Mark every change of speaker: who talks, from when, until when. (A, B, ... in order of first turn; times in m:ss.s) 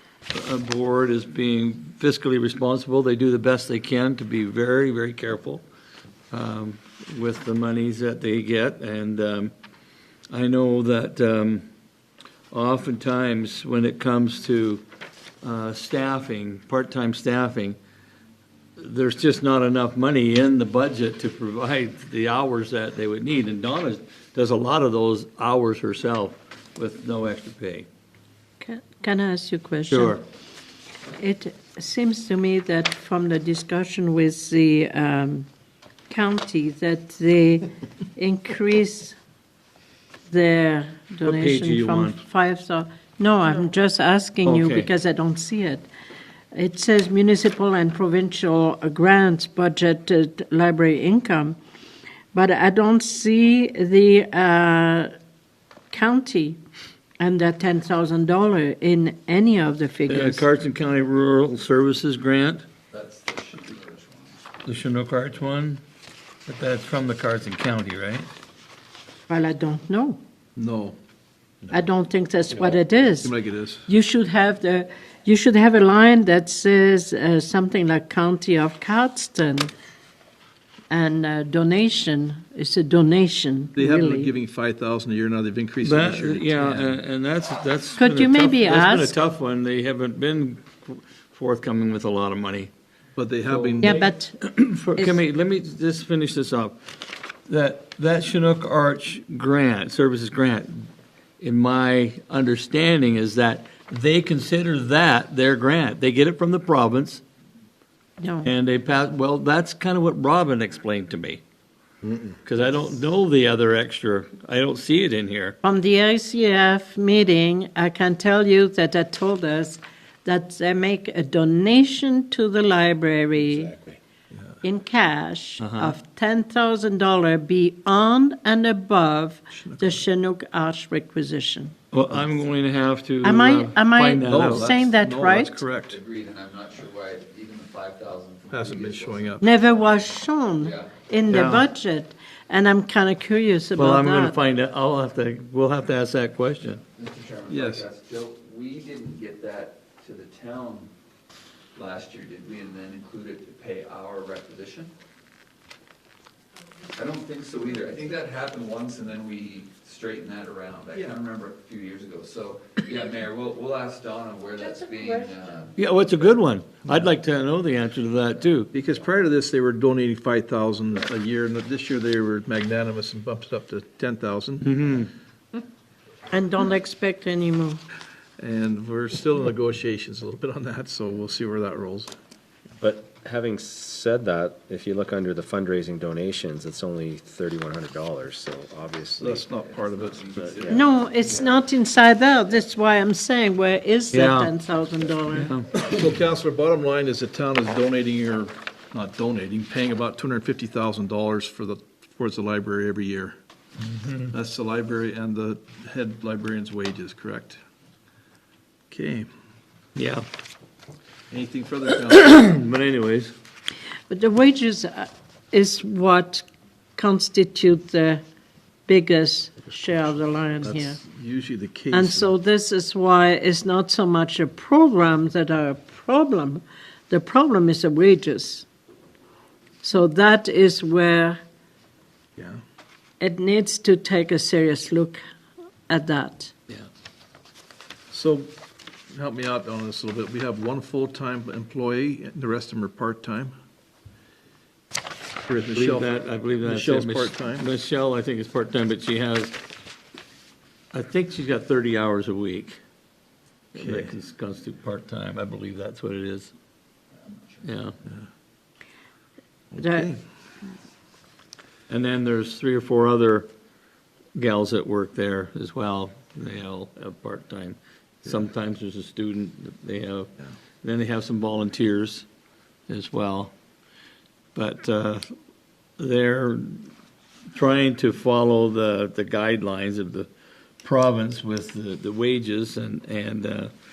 0:00.3-0:05.6 A
0:06.3-0:09.5 A
0:10.3-0:11.6 A
0:12.5-0:14.8 A
0:15.4-0:17.8 A
0:18.8-0:27.9 A
0:28.6-0:30.2 B
0:29.9-0:30.2 A
0:31.2-0:35.5 B
0:36.1-0:39.2 B
0:40.3-0:45.9 B
0:41.2-0:42.2 A
0:44.4-0:44.9 A
0:46.5-0:51.6 B
0:52.3-0:55.1 B
0:55.9-0:56.6 B
0:57.2-1:00.4 B
1:00.1-1:02.7 A
1:02.9-1:04.4 C
1:04.6-1:05.8 A
1:06.4-1:08.3 A
1:09.3-1:10.2 B
1:10.6-1:11.0 D
1:11.7-1:13.3 B
1:12.6-1:13.9 D
1:13.9-1:19.7 B
1:20.9-1:24.3 B
1:23.8-1:27.0 D
1:25.8-1:32.7 A
1:28.0-1:29.1 B
1:33.2-1:34.1 D
1:33.5-1:36.8 A
1:33.8-1:34.4 B
1:37.5-1:40.9 A
1:41.4-1:47.2 A
1:48.2-1:48.5 B
1:48.4-1:51.4 A
1:52.4-1:55.6 A
1:55.6-2:03.8 B
2:03.5-2:04.0 E
2:04.6-2:11.7 B
2:05.6-2:06.0 A
2:09.6-2:09.9 D
2:11.9-2:14.7 A
2:13.2-2:15.6 B
2:14.2-2:16.0 D
2:15.9-2:20.9 C
2:18.5-2:19.4 D
2:19.4-2:24.4 B
2:21.3-2:21.7 A
2:23.8-2:26.8 A
2:27.0-2:30.9 C
2:27.5-2:27.8 D
2:31.7-2:34.9 C
2:36.8-2:45.8 C
2:45.8-2:48.7 A
2:48.7-2:54.6 D
2:54.6-2:55.1 A
2:56.3-2:57.8 B
2:58.4-3:02.1 D
3:02.8-3:09.5 E
3:09.2-3:10.3 D
3:09.5-3:11.6 C
3:10.4-3:11.5 E
3:10.6-3:15.5 B
3:14.1-3:14.5 A
3:15.3-3:15.7 A
3:15.8-3:23.4 D
3:24.3-3:27.6 D
3:28.9-3:29.3 D
3:30.0-3:30.2 A
3:31.3-3:32.4 D
3:32.1-3:33.3 A
3:34.1-3:36.4 B
3:37.0-3:38.2 B
3:38.9-3:41.0 B
3:40.6-3:42.3 D
3:41.9-3:48.6 B
3:49.8-3:51.4 B
3:52.4-3:52.6 D
3:53.2-3:55.2 B
3:55.9-3:56.5 B
3:58.1-3:58.5 D
3:59.1-4:03.5 D
4:05.5-4:07.6 D
4:05.7-4:09.6 A
4:10.9-4:12.8 A
4:13.7-4:16.5 A
4:13.8-4:14.1 D
4:17.6-4:18.0 A
4:19.7-4:20.2 D
4:19.8-4:20.0 B
4:21.9-4:23.5 A
4:24.3-4:30.3 A
4:30.8-4:32.2 A
4:32.9-4:33.5 A
4:34.5-4:35.3 A
4:36.0-4:36.9 A
4:37.5-4:40.3 A
4:40.8-4:43.7 A